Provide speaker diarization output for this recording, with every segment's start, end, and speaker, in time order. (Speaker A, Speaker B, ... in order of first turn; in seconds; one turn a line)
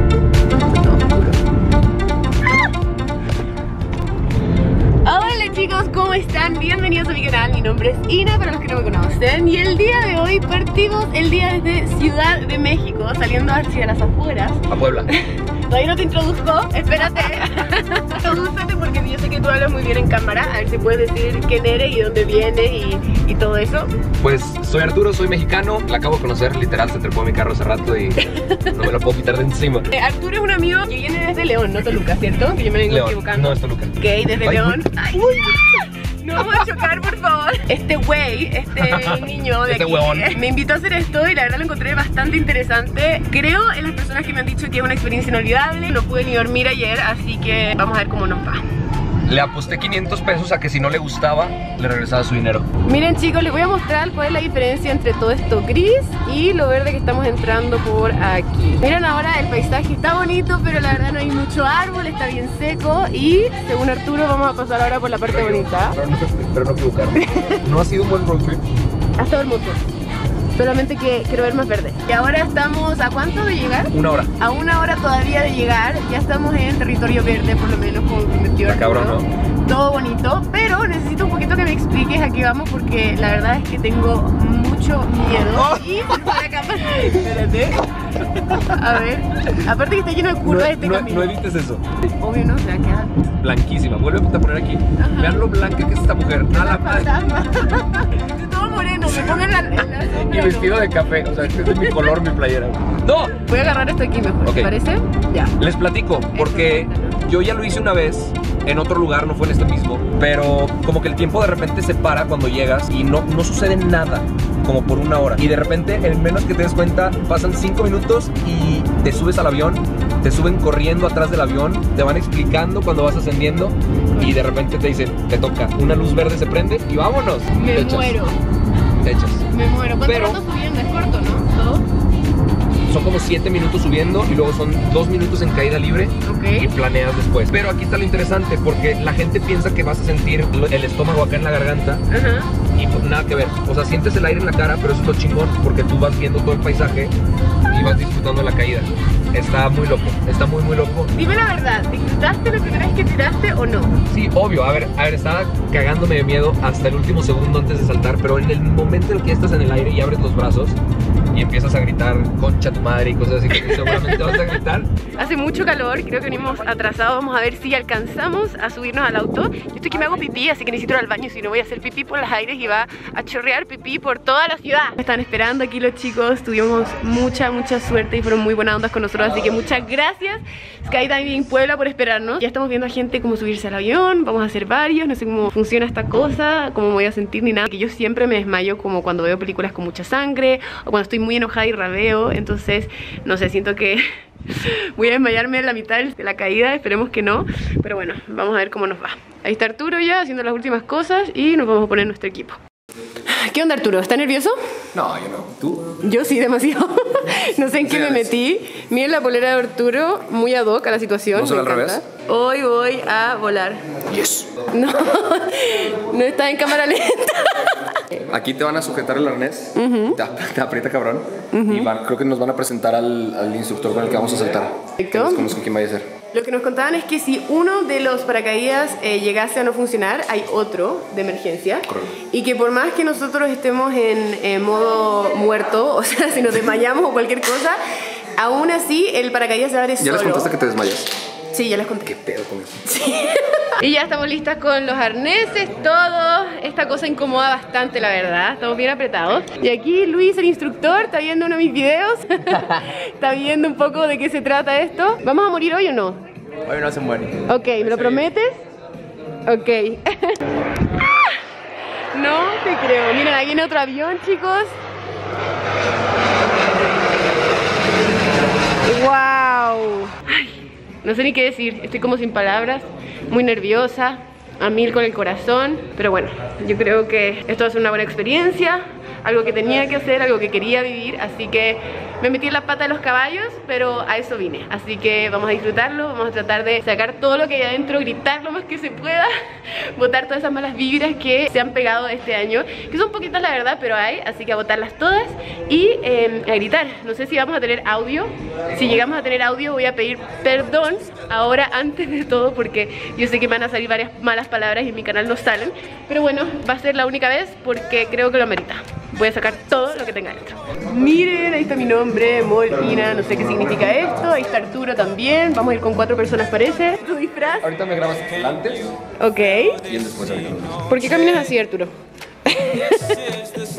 Speaker A: 0.9-1.1
Speaker A: 5.0-23.9
Speaker B: 14.7-15.1
Speaker B: 24.2-29.9
Speaker A: 28.2-28.8
Speaker A: 29.9-48.6
Speaker B: 32.9-34.8
Speaker B: 38.8-40.4
Speaker B: 49.2-52.7
Speaker A: 52.8-66.0
Speaker B: 65.2-68.6
Speaker A: 67.1-67.6
Speaker A: 69.2-69.8
Speaker A: 70.6-91.3
Speaker B: 73.9-74.3
Speaker B: 78.6-79.3
Speaker B: 90.4-92.0
Speaker A: 92.2-93.3
Speaker B: 93.4-97.1
Speaker A: 95.0-95.5
Speaker A: 96.5-100.8
Speaker B: 100.1-103.3
Speaker A: 101.6-102.2
Speaker A: 103.3-105.5
Speaker B: 104.4-104.7
Speaker B: 105.6-128.2
Speaker A: 106.3-107.2
Speaker A: 124.1-124.4
Speaker A: 127.5-128.4
Speaker B: 129.0-129.4
Speaker A: 129.5-131.8
Speaker B: 130.0-130.4
Speaker B: 132.9-142.0
Speaker A: 136.2-136.7
Speaker A: 142.1-142.5
Speaker B: 142.7-147.1
Speaker B: 147.7-151.1
Speaker A: 151.1-153.9
Speaker B: 154.1-160.8
Speaker B: 161.3-164.9
Speaker A: 163.8-164.4
Speaker A: 165.2-202.6
Speaker A: 203.2-204.6
Speaker B: 204.9-205.9
Speaker A: 206.0-213.8
Speaker B: 207.8-208.3
Speaker B: 211.3-212.0
Speaker B: 214.1-214.5
Speaker A: 214.7-217.9
Speaker B: 218.2-226.1
Speaker A: 219.7-220.2
Speaker A: 221.5-221.9
Speaker A: 225.0-225.5
Speaker A: 226.3-237.8
Speaker B: 231.9-232.1
Speaker A: 238.3-240.5
Speaker B: 240.0-241.1
Speaker A: 241.5-242.1
Speaker B: 242.0-242.8
Speaker A: 242.8-256.2
Speaker B: 256.7-257.4
Speaker A: 257.4-258.6
Speaker A: 259.4-261.4
Speaker A: 262.1-264.7
Speaker A: 268.8-317.7
Speaker B: 317.6-318.9
Speaker A: 319.2-319.8
Speaker B: 319.8-320.8
Speaker A: 320.9-321.9
Speaker A: 322.4-323.4